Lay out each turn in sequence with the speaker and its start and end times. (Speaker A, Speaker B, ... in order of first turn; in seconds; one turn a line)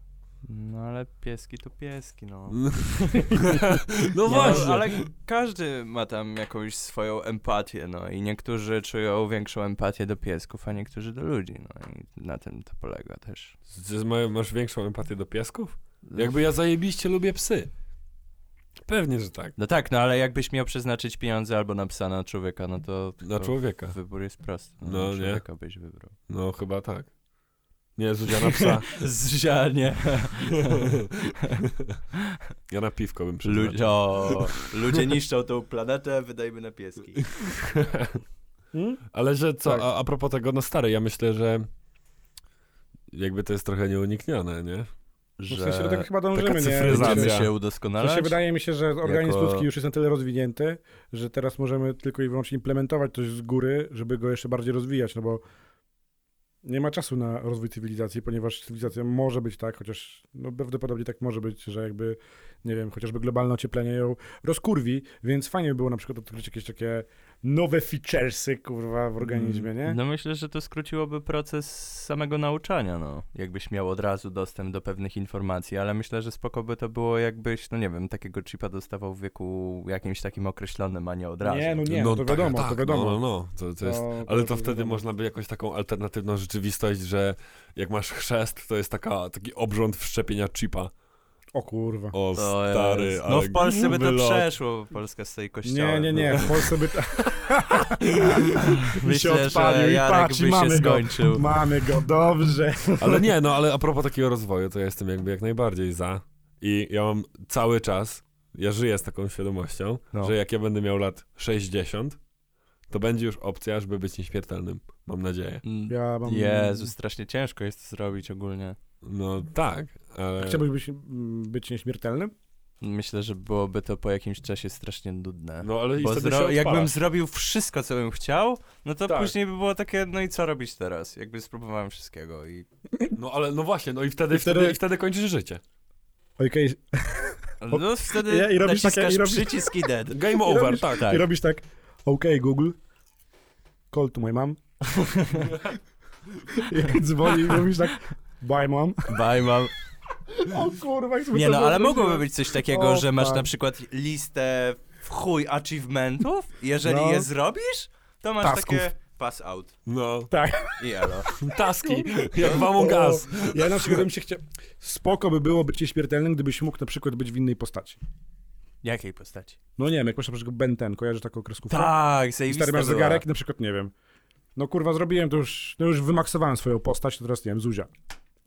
Speaker A: 0.4-3.4
Speaker B: 2.5-5.0
Speaker A: 4.2-13.5
Speaker C: 4.3-4.7
Speaker B: 13.7-17.7
Speaker B: 18.9-19.5
Speaker A: 19.6-26.1
Speaker B: 23.2-23.9
Speaker B: 24.8-25.4
Speaker B: 26.3-27.1
Speaker B: 28.0-28.9
Speaker A: 28.5-31.6
Speaker B: 32.7-34.5
Speaker A: 33.4-37.3
Speaker B: 37.2-38.2
Speaker C: 38.7-39.0
Speaker B: 39.1-41.7
Speaker B: 43.1-44.9
Speaker A: 45.4-46.1
Speaker C: 45.5-47.4
Speaker B: 46.3-47.5
Speaker A: 46.7-48.4
Speaker C: 48.0-55.4
Speaker A: 49.0-49.7
Speaker C: 56.6-70.0
Speaker A: 69.2-81.8
Speaker C: 81.4-83.2
Speaker B: 81.9-90.9
Speaker C: 83.8-85.0
Speaker C: 91.5-92.1
Speaker B: 92.1-94.5
Speaker A: 92.3-96.5
Speaker C: 95.6-103.3
Speaker B: 97.9-98.4
Speaker A: 98.5-101.5
Speaker B: 103.0-112.2
Speaker B: 112.9-115.6
Speaker A: 115.6-118.8
Speaker C: 115.9-116.9
Speaker B: 119.0-120.6
Speaker C: 120.4-122.3
Speaker A: 122.8-132.7
Speaker B: 125.6-126.9
Speaker B: 129.1-129.3
Speaker B: 133.1-135.6
Speaker C: 134.3-134.8
Speaker C: 136.4-139.8
Speaker A: 137.6-141.2
Speaker B: 140.1-141.2
Speaker C: 140.4-142.8
Speaker C: 143.9-144.6
Speaker A: 145.1-145.5
Speaker B: 145.5-145.7
Speaker C: 146.5-149.2
Speaker A: 149.1-149.7
Speaker C: 150.3-153.5
Speaker A: 151.3-159.7
Speaker C: 156.8-157.3
Speaker C: 158.4-158.9
Speaker B: 159.8-160.3
Speaker C: 160.3-168.0
Speaker A: 160.8-161.3
Speaker B: 161.4-164.0
Speaker A: 168.8-169.6
Speaker C: 169.8-171.9
Speaker A: 171.7-173.2
Speaker C: 172.5-173.9
Speaker C: 174.6-177.9